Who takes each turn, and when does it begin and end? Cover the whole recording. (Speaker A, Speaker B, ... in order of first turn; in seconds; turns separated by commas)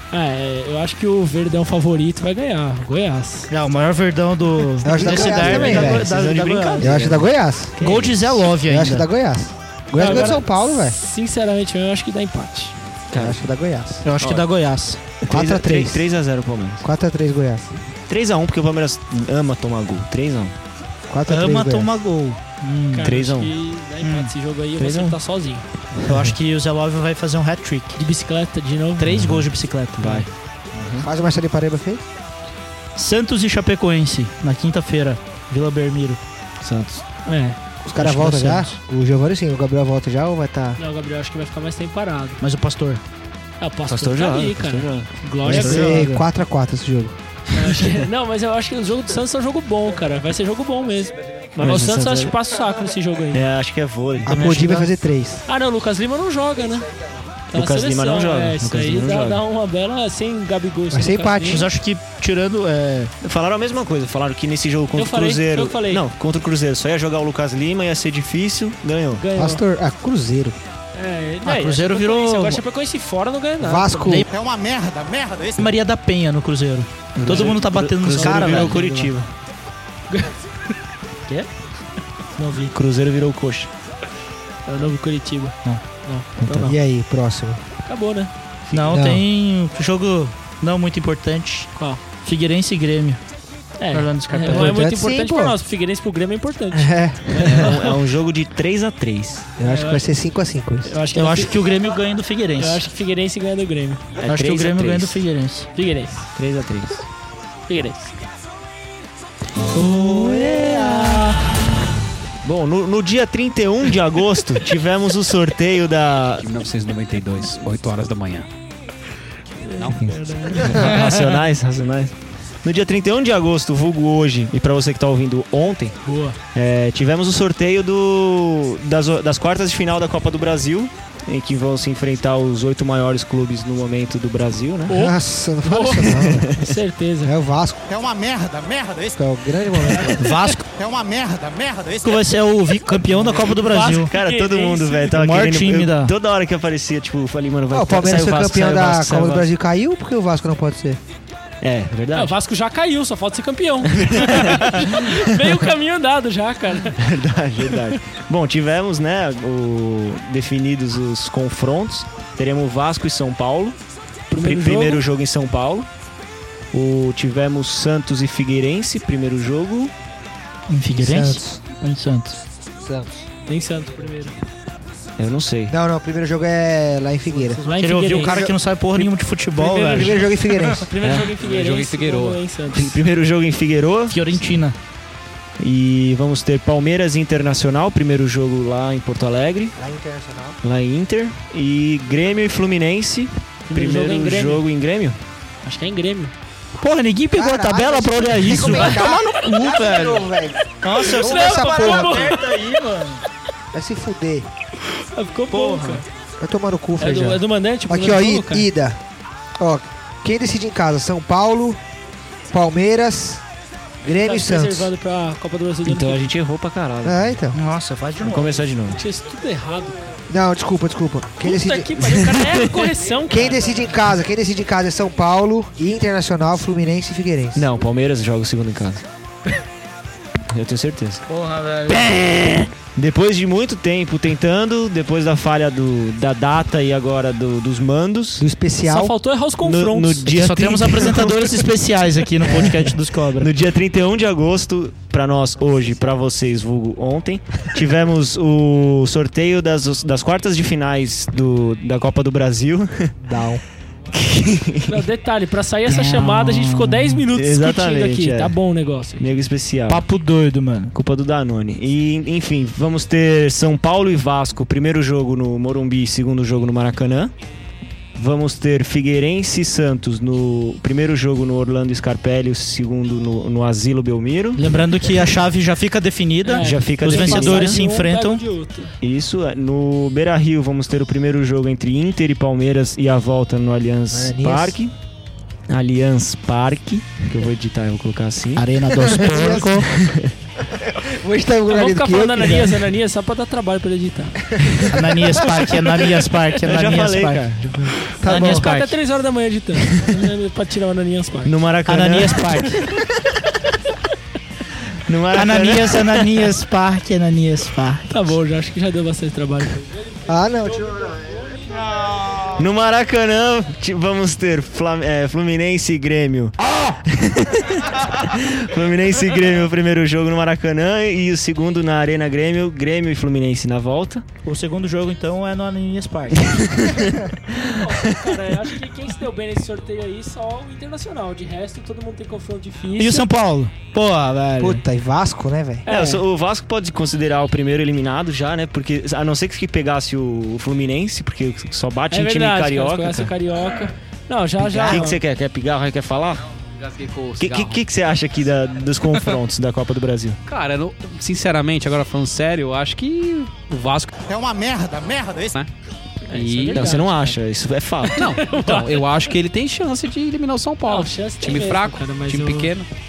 Speaker A: 0.1-3.5, Speaker B: 3.5-7.1, Speaker C: 4.8-6.1, Speaker D: 4.9-8.4, Speaker C: 6.8-7.8, Speaker B: 7.8-9.1, Speaker C: 8.6-11.0, Speaker A: 9.9-12.7, Speaker D: 13.1-13.5, Speaker C: 13.1-14.0, Speaker B: 14.0-15.1, Speaker D: 14.2-14.5, Speaker D: 15.2-16.8, Speaker C: 15.3-16.1, Speaker C: 16.8-17.7, Speaker D: 18.1-20.6, Speaker C: 21.1-21.9, Speaker B: 21.3-23.1, Speaker A: 22.9-25.6, Speaker D: 23.0-23.5, Speaker B: 24.0-24.3, Speaker D: 24.8-25.2, Speaker B: 26.1-28.0, Speaker A: 27.9-29.1, Speaker B: 29.0-30.3, Speaker D: 29.1-29.4, Speaker D: 30.0-31.1, Speaker C: 31.0-32.0, Speaker B: 33.0-36.2, Speaker D: 36.6-37.0, Speaker A: 37.3-38.1, Speaker C: 37.8-40.8, Speaker B: 38.0-38.6, Speaker A: 40.8-42.4, Speaker B: 42.4-43.0, Speaker A: 43.6-46.2, Speaker D: 43.9-46.0, Speaker C: 45.4-47.1, Speaker A: 47.5-53.4, Speaker D: 51.6-52.3, Speaker D: 53.3-54.4, Speaker C: 54.2-55.4, Speaker B: 54.3-54.9, Speaker A: 55.5-56.9, Speaker A: 57.5-61.7, Speaker D: 57.5-59.4, Speaker C: 60.9-61.7, Speaker B: 61.5-63.1, Speaker D: 63.2-69.2, Speaker A: 64.9-66.0, Speaker A: 69.2-69.6, Speaker C: 69.3-70.5, Speaker A: 70.9-74.2, Speaker B: 71.4-72.6, Speaker C: 73.6-74.3, Speaker E: 74.3-75.7, Speaker B: 75.6-79.1, Speaker D: 77.2-79.3, Speaker A: 77.3-79.1, Speaker A: 80.1-80.4, Speaker A: 82.4-82.7, Speaker D: 82.7-83.7, Speaker A: 84.7-86.8, Speaker D: 86.4-86.7, Speaker C: 86.6-87.6, Speaker A: 87.9-88.3, Speaker B: 88.7-93.2, Speaker C: 88.8-89.2, Speaker A: 91.8-92.0, Speaker A: 93.8-97.9, Speaker B: 93.9-94.8, Speaker C: 94.5-95.5, Speaker C: 96.7-97.8, Speaker D: 97.4-99.5, Speaker C: 99.6-100.9, Speaker A: 99.6-100.1, Speaker A: 100.8-101.5, Speaker B: 101.1-102.8, Speaker A: 102.6-104.0, Speaker D: 104.2-105.2, Speaker B: 104.2-105.7, Speaker A: 105.7-106.3, Speaker D: 106.3-107.0, Speaker A: 107.7-108.2, Speaker D: 109.7-111.2, Speaker B: 109.9-111.3, Speaker D: 112.4-116.4, Speaker F: 116.4-118.5, Speaker A: 119.6-121.0, Speaker F: 119.8-120.6, Speaker D: 120.6-126.0, Speaker B: 120.8-121.3, Speaker A: 126.0-126.4, Speaker D: 126.5-135.0, Speaker A: 134.9-137.4, Speaker C: 134.9-136.5, Speaker D: 136.3-136.7, Speaker C: 137.2-137.8, Speaker E: 137.9-139.2, Speaker C: 139.2-140.2, Speaker A: 139.8-140.5, Speaker B: 140.2-140.7, Speaker E: 140.7-142.3, Speaker B: 142.0-144.1, Speaker A: 143.2-145.2, Speaker D: 143.9-149.5, Speaker B: 145.1-146.1, Speaker C: 147.7-151.0, Speaker D: 151.6-152.4, Speaker A: 152.1-157.0, Speaker D: 153.9-155.2, Speaker D: 157.0-163.8, Speaker A: 164.3-165.1, Speaker D: 164.3-165.9, Speaker D: 166.7-169.9, Speaker B: 170.7-172.4, Speaker C: 170.9-171.6, Speaker C: 172.8-173.2, Speaker A: 173.5-174.3, Speaker D: 175.2-175.8, Speaker C: 175.7-178.6, Speaker A: 177.3-178.4, Speaker B: 177.8-180.2, Speaker A: 179.6-183.0, Speaker C: 179.9-180.8, Speaker D: 181.0-181.3, Speaker F: 181.2-182.4, Speaker D: 182.7-184.3, Speaker B: 184.1-184.8, Speaker D: 185.6-189.8, Speaker C: 189.8-190.6, Speaker D: 190.6-195.2, Speaker A: 193.7-194.6, Speaker A: 195.6-196.3, Speaker B: 196.8-200.3, Speaker C: 197.3-202.3, Speaker B: 200.8-203.2, Speaker A: 201.0-202.4, Speaker C: 203.7-204.5, Speaker A: 205.1-206.1, Speaker B: 205.5-206.0, Speaker C: 206.4-209.0, Speaker A: 207.0-208.7, Speaker C: 209.6-211.8, Speaker C: 212.5-213.4, Speaker C: 214.0-214.9, Speaker A: 214.2-216.3, Speaker D: 215.8-217.4, Speaker C: 217.0-217.6, Speaker B: 217.5-218.6, Speaker D: 218.2-219.0, Speaker A: 218.9-220.1, Speaker C: 220.3-222.2, Speaker A: 221.4-223.6, Speaker D: 222.1-222.9, Speaker C: 223.3-227.7, Speaker D: 227.6-229.1, Speaker D: 230.5-231.2, Speaker B: 231.3-232.1, Speaker D: 231.9-238.4, Speaker C: 238.4-239.1, Speaker A: 238.9-240.4, Speaker D: 239.6-241.5, Speaker B: 240.3-243.5, Speaker D: 242.5-242.8, Speaker D: 243.4-253.1, Speaker C: 253.2-253.6, Speaker D: 254.1-255.1, Speaker A: 254.9-259.3, Speaker B: 255.9-257.2, Speaker D: 257.3-258.6, Speaker D: 259.2-260.0, Speaker B: 259.9-260.9, Speaker D: 260.9-267.3, Speaker D: 268.1-274.6, Speaker B: 274.6-278.4, Speaker A: 276.4-279.0, Speaker D: 276.6-277.8, Speaker D: 279.0-284.9, Speaker C: 284.1-284.8, Speaker D: 285.7-288.7, Speaker B: 288.6-289.9, Speaker C: 288.9-289.9, Speaker D: 289.8-290.3, Speaker C: 290.7-292.9, Speaker A: 291.7-294.7, Speaker C: 294.5-295.9, Speaker B: 294.9-297.4, Speaker D: 296.6-297.9, Speaker C: 296.9-298.7, Speaker B: 298.2-298.9, Speaker A: 298.3-301.6, Speaker D: 301.4-303.0, Speaker B: 301.9-302.8, Speaker D: 305.1-306.4, Speaker B: 305.3-308.1, Speaker A: 308.1-310.0, Speaker C: 310.3-311.6, Speaker D: 312.6-324.2, Speaker B: 324.4-326.7, Speaker D: 326.4-327.9, Speaker A: 327.6-333.3, Speaker B: 333.0-334.8, Speaker C: 334.6-335.9, Speaker A: 335.9-336.2, Speaker D: 335.9-343.3, Speaker A: 342.1-345.2, Speaker D: 344.6-346.4, Speaker F: 346.8-347.8, Speaker D: 347.4-350.4, Speaker F: 350.5-354.1, Speaker E: 354.3-355.6, Speaker A: 356.3-357.4, Speaker F: 356.3-357.1, Speaker D: 356.7-358.3, Speaker A: 358.1-359.2, Speaker F: 358.1-362.9, Speaker A: 360.9-362.7